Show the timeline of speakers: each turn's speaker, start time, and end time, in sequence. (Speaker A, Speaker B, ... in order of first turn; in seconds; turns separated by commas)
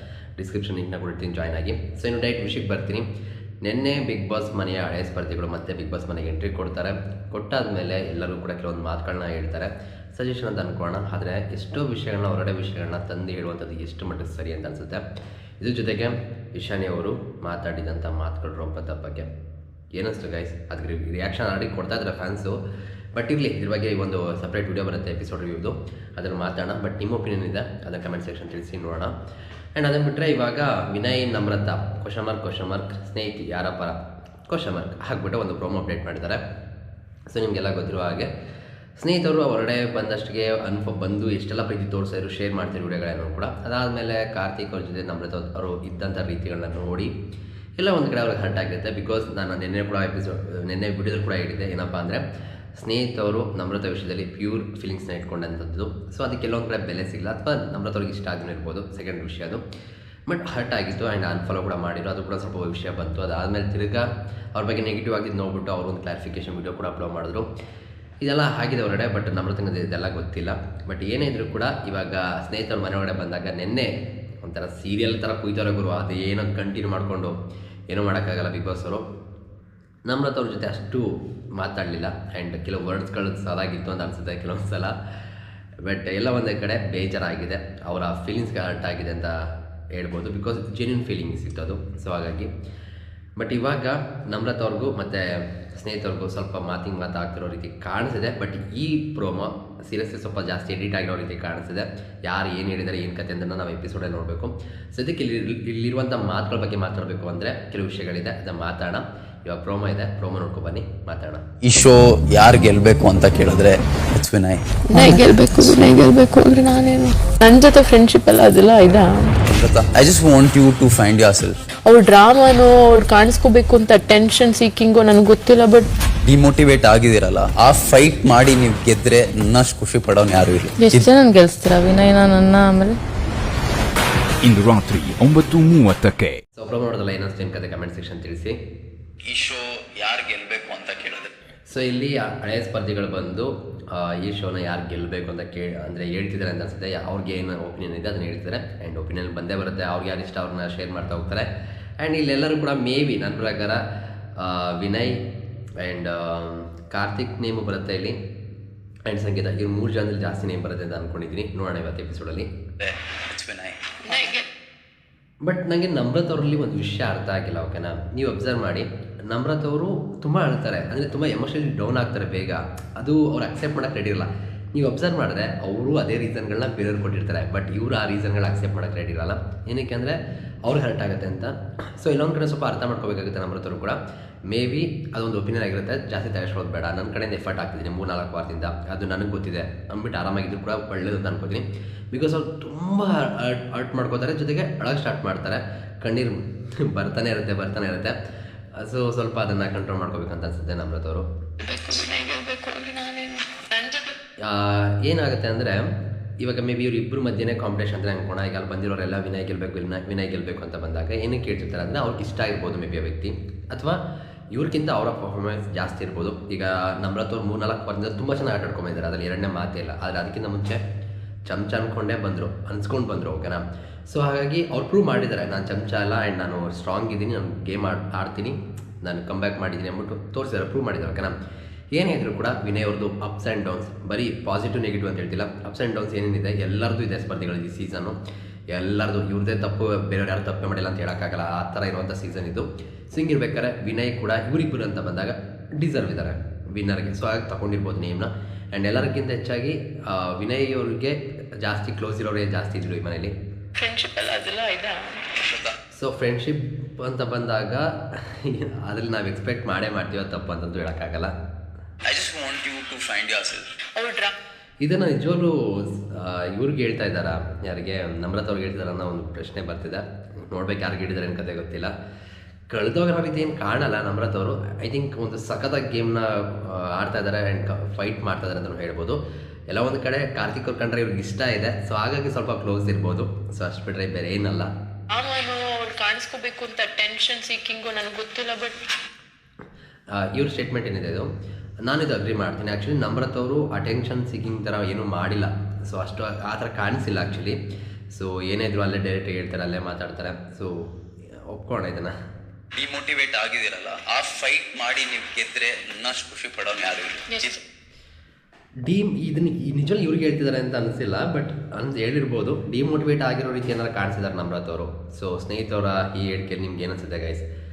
Speaker A: 0.4-3.0, Speaker A: 3.6-15.0, Speaker A: 15.6-19.3, Speaker A: 19.9-22.6, Speaker A: 23.1-29.1, Speaker A: 29.8-34.0, Speaker A: 34.5-36.4, Speaker A: 37.3-38.3, Speaker A: 39.0-47.1, Speaker A: 47.8-52.2, Speaker A: 52.8-59.6, Speaker A: 60.3-67.5, Speaker A: 68.2-73.9, Speaker A: 74.4-77.3, Speaker A: 77.9-79.0, Speaker A: 80.1-84.9, Speaker A: 85.8-89.3, Speaker A: 89.9-92.5, Speaker A: 93.4-111.4, Speaker B: 111.6-114.7, Speaker C: 114.9-119.3, Speaker B: 119.4-121.6, Speaker C: 121.8-125.9, Speaker B: 126.2-131.1, Speaker C: 130.8-133.0, Speaker D: 134.4-136.3, Speaker A: 136.6-138.6, Speaker B: 139.2-141.5, Speaker A: 141.7-151.5, Speaker A: 152.0-153.8, Speaker A: 154.4-155.2, Speaker A: 155.8-158.1, Speaker A: 159.1-162.5, Speaker B: 162.8-164.3, Speaker C: 164.1-164.4, Speaker A: 165.4-198.1, Speaker A: 198.8-201.2, Speaker C: 201.6-204.1, Speaker A: 204.4-205.9, Speaker A: 206.4-214.0, Speaker A: 214.5-220.8, Speaker A: 221.4-231.3, Speaker A: 231.9-238.2, Speaker A: 238.7-253.3, Speaker C: 253.8-255.2, Speaker B: 255.4-255.7, Speaker A: 255.9-261.3, Speaker B: 262.0-263.7, Speaker C: 263.9-264.3, Speaker A: 264.8-271.9, Speaker A: 272.7-279.2, Speaker A: 279.7-284.7, Speaker C: 285.1-288.8, Speaker A: 290.1-291.3, Speaker A: 291.8-297.6, Speaker A: 298.1-300.9, Speaker A: 301.5-302.1, Speaker B: 302.7-307.6, Speaker C: 307.3-307.6, Speaker A: 308.8-317.4